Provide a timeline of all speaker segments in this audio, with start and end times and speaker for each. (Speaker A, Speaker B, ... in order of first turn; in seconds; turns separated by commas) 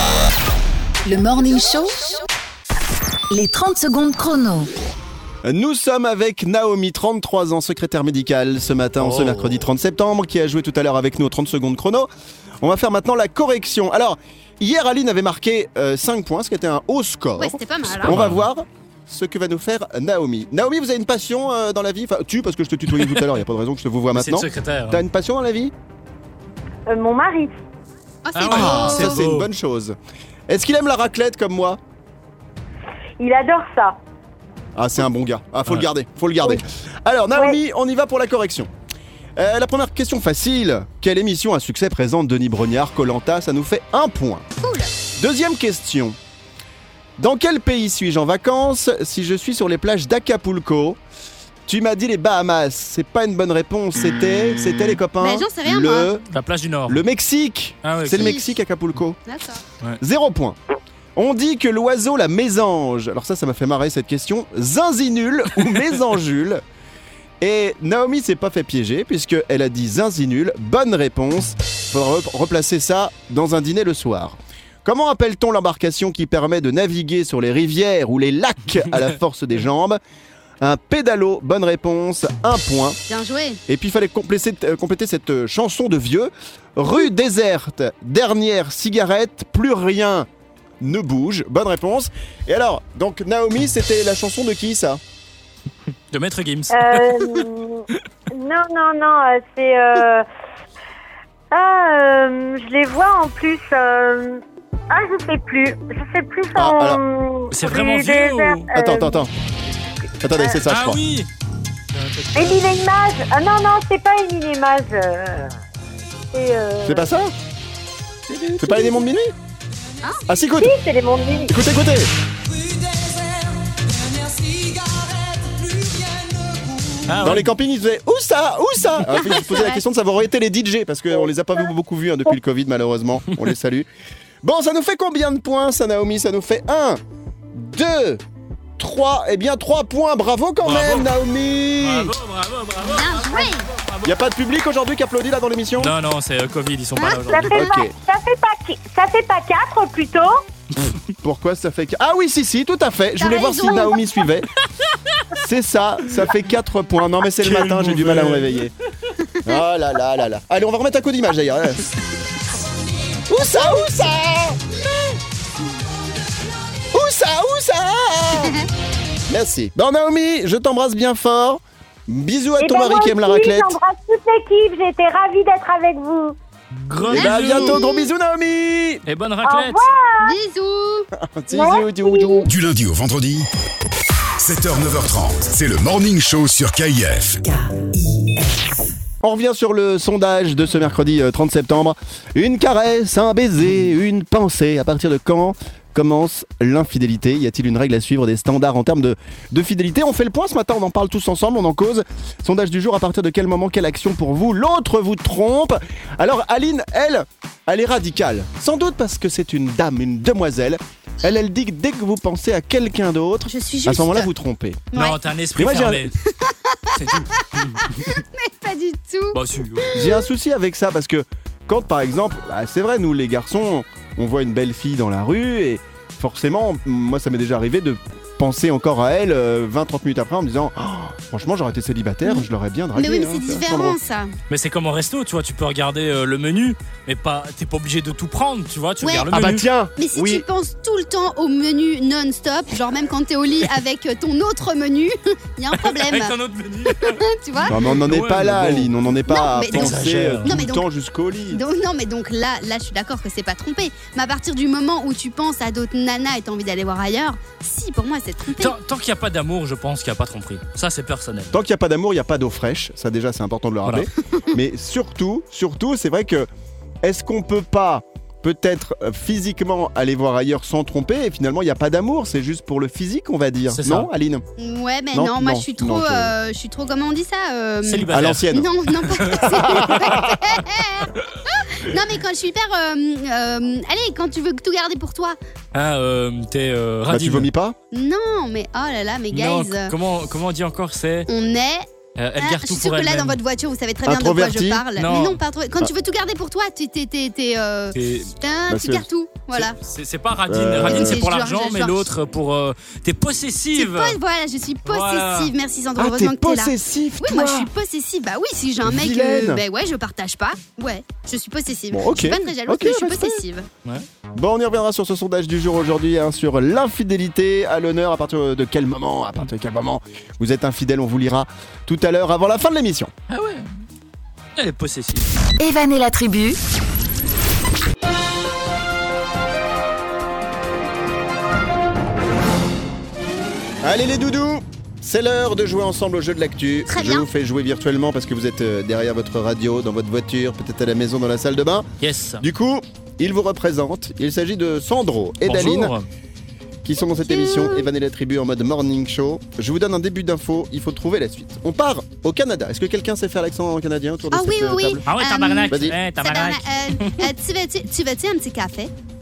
Speaker A: 1.0-2.2, Speaker A: 3.3-4.7, Speaker B: 5.4-12.1, Speaker C: 9.0-9.6, Speaker B: 12.6-25.7, Speaker D: 17.4-18.1, Speaker C: 18.1-18.4, Speaker C: 24.1-25.0, Speaker E: 26.9-27.5, Speaker D: 28.2-29.2, Speaker C: 28.4-29.5, Speaker B: 28.5-29.9, Speaker B: 30.5-31.8, Speaker E: 33.2-34.0, Speaker B: 34.8-38.7, Speaker B: 39.4-44.5, Speaker D: 44.6-44.9, Speaker B: 45.2-46.2, Speaker B: 47.2-51.0, Speaker B: 51.7-56.2, Speaker D: 55.2-56.1, Speaker C: 56.3-57.0, Speaker B: 56.9-59.2, Speaker C: 57.8-58.4, Speaker D: 59.2-59.6, Speaker B: 60.0-60.5, Speaker B: 61.1-66.6, Speaker B: 67.4-80.0, Speaker B: 80.6-83.0, Speaker D: 83.1-83.6, Speaker B: 83.7-90.3, Speaker B: 90.8-95.0, Speaker C: 96.1-97.5, Speaker E: 96.7-100.2, Speaker E: 101.5-109.3, Speaker B: 106.5-107.0, Speaker C: 107.5-108.7, Speaker B: 108.7-109.3, Speaker B: 110.2-111.0, Speaker C: 110.7-111.3, Speaker C: 111.9-112.7, Speaker E: 112.3-115.5, Speaker E: 116.3-117.1, Speaker B: 116.8-117.3, Speaker C: 118.3-118.8, Speaker B: 118.6-119.3, Speaker B: 120.3-120.8, Speaker E: 120.6-121.5, Speaker B: 121.5-122.1, Speaker E: 122.7-123.5, Speaker E: 124.0-126.9, Speaker C: 127.0-127.5, Speaker B: 127.1-133.9, Speaker D: 129.2-129.8, Speaker B: 134.4-137.0, Speaker B: 137.5-138.2, Speaker B: 138.8-142.1, Speaker C: 140.6-141.1, Speaker C: 141.8-144.2, Speaker D: 142.9-143.7, Speaker B: 144.0-145.9, Speaker C: 145.8-147.6, Speaker D: 146.9-147.4, Speaker E: 147.2-150.4, Speaker B: 147.5-147.9, Speaker B: 151.2-154.5, Speaker D: 153.2-154.0, Speaker B: 155.3-158.7, Speaker C: 157.4-158.7, Speaker D: 159.2-159.5, Speaker B: 159.4-161.9, Speaker B: 163.3-164.6, Speaker D: 163.4-163.8, Speaker B: 166.9-168.6, Speaker B: 169.3-173.8, Speaker E: 172.6-176.3, Speaker C: 176.7-177.8, Speaker B: 177.1-179.0, Speaker D: 177.1-178.1, Speaker C: 179.1-179.8, Speaker E: 179.4-180.3, Speaker D: 180.2-181.1, Speaker B: 181.2-182.5, Speaker E: 181.5-182.5, Speaker F: 182.4-183.5, Speaker F: 184.4-187.4, Speaker B: 189.2-214.9, Speaker D: 213.5-214.3, Speaker D: 214.9-215.2, Speaker C: 214.9-216.1, Speaker B: 215.6-216.1, Speaker D: 216.3-220.2, Speaker C: 216.9-218.0, Speaker C: 219.3-219.9, Speaker B: 219.9-234.0, Speaker D: 232.2-234.3, Speaker C: 234.5-239.7, Speaker D: 239.0-239.3, Speaker B: 239.3-240.4, Speaker D: 240.0-246.3, Speaker C: 245.7-249.0, Speaker D: 246.9-247.8, Speaker B: 247.7-251.6, Speaker D: 249.3-250.8, Speaker C: 249.6-250.6, Speaker D: 251.5-258.7, Speaker C: 258.5-261.6, Speaker B: 261.5-266.5, Speaker B: 267.0-274.4, Speaker C: 273.7-274.1, Speaker D: 274.6-285.4, Speaker B: 275.1-276.3, Speaker C: 277.8-278.5, Speaker B: 278.1-278.7, Speaker C: 279.0-280.1, Speaker B: 279.4-280.4, Speaker C: 285.7-287.5, Speaker B: 287.1-287.8, Speaker D: 287.9-289.9, Speaker C: 289.3-291.3, Speaker D: 291.3-291.9, Speaker C: 292.2-293.4, Speaker D: 292.4-299.7, Speaker B: 294.0-294.8, Speaker C: 295.0-295.4, Speaker C: 297.9-298.3, Speaker B: 298.7-299.1, Speaker C: 299.5-304.2, Speaker B: 300.5-301.2, Speaker D: 300.8-302.1, Speaker D: 303.8-313.7, Speaker C: 304.9-305.5, Speaker B: 306.0-307.7, Speaker B: 308.8-309.6, Speaker B: 311.9-313.4, Speaker B: 314.3-323.1, Speaker C: 323.3-323.7, Speaker C: 324.6-325.2, Speaker A: 325.6-326.6, Speaker B: 333.8-341.9, Speaker D: 336.9-337.3, Speaker C: 342.0-342.4, Speaker B: 342.4-345.9, Speaker C: 345.4-346.1, Speaker B: 346.8-355.0, Speaker D: 347.2-347.9, Speaker D: 354.3-358.9, Speaker C: 355.1-357.3, Speaker B: 355.7-356.0